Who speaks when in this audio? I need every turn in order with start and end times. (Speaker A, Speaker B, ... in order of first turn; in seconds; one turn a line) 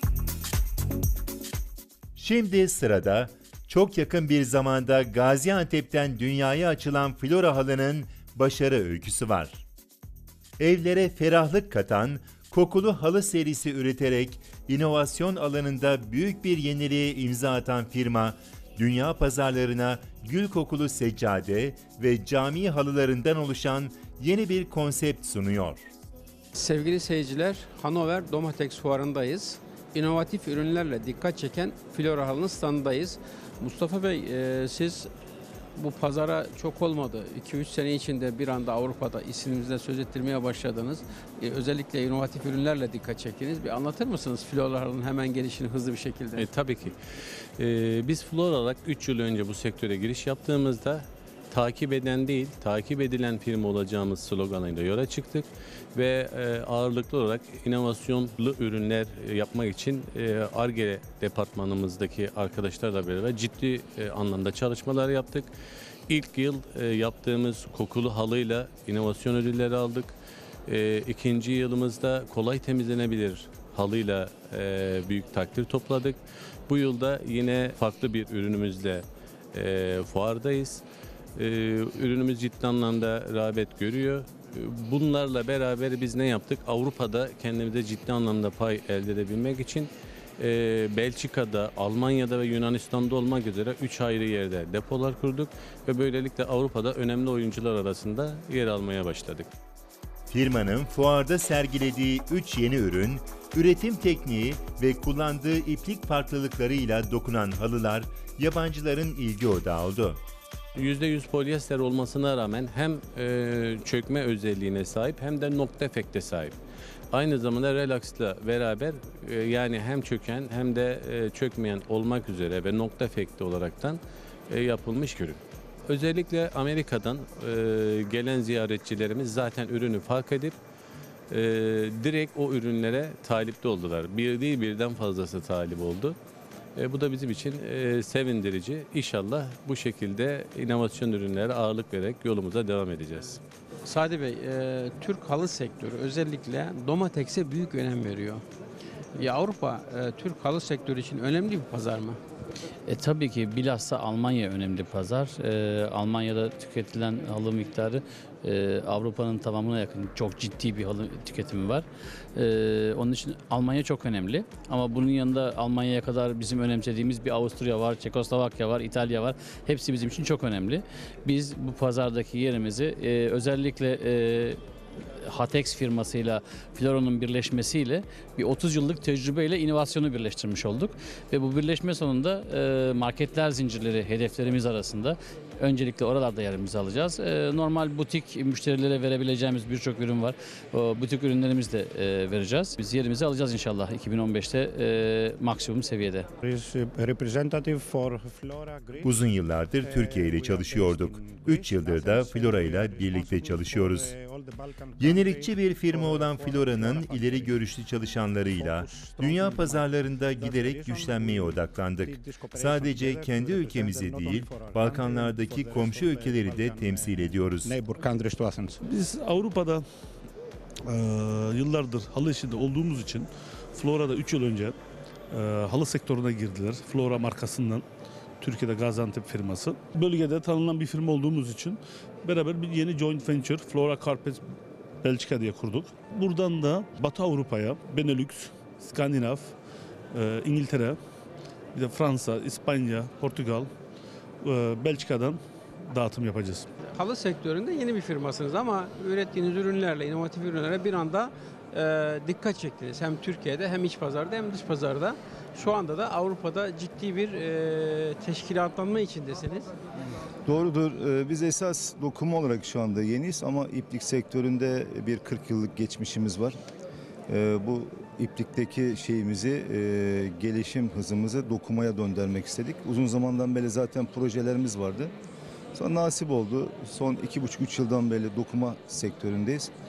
Speaker A: 2.2-9.6
Speaker A: 10.6-25.8
Speaker B: 26.6-35.1
Speaker B: 35.8-46.5
Speaker C: 46.4-47.0
Speaker C: 47.6-65.5
Speaker C: 66.1-70.2
Speaker C: 70.7-80.8
Speaker C: 81.4-99.5
Speaker A: 100.3-110.2
Speaker C: 110.8-116.5
Speaker C: 117.1-130.6
Speaker C: 131.3-136.2
Speaker C: 136.8-143.4
Speaker B: 143.8-148.4
Speaker B: 149.2-152.2
Speaker D: 152.9-174.6
Speaker D: 175.2-196.3
Speaker E: 196.4-199.1
Speaker A: 199.0-204.2
Speaker E: 199.8-207.6
Speaker A: 205.0-217.8
Speaker E: 208.6-218.8
Speaker F: 218.8-219.8
Speaker F: 220.9-224.8
Speaker F: 225.3-227.8
Speaker F: 228.4-234.4
Speaker F: 235.0-239.5
Speaker F: 240.1-241.0
Speaker F: 241.8-243.7
Speaker F: 244.4-246.7
Speaker B: 246.9-259.7
Speaker G: 260.5-266.6
Speaker G: 267.3-275.1
Speaker G: 275.7-279.7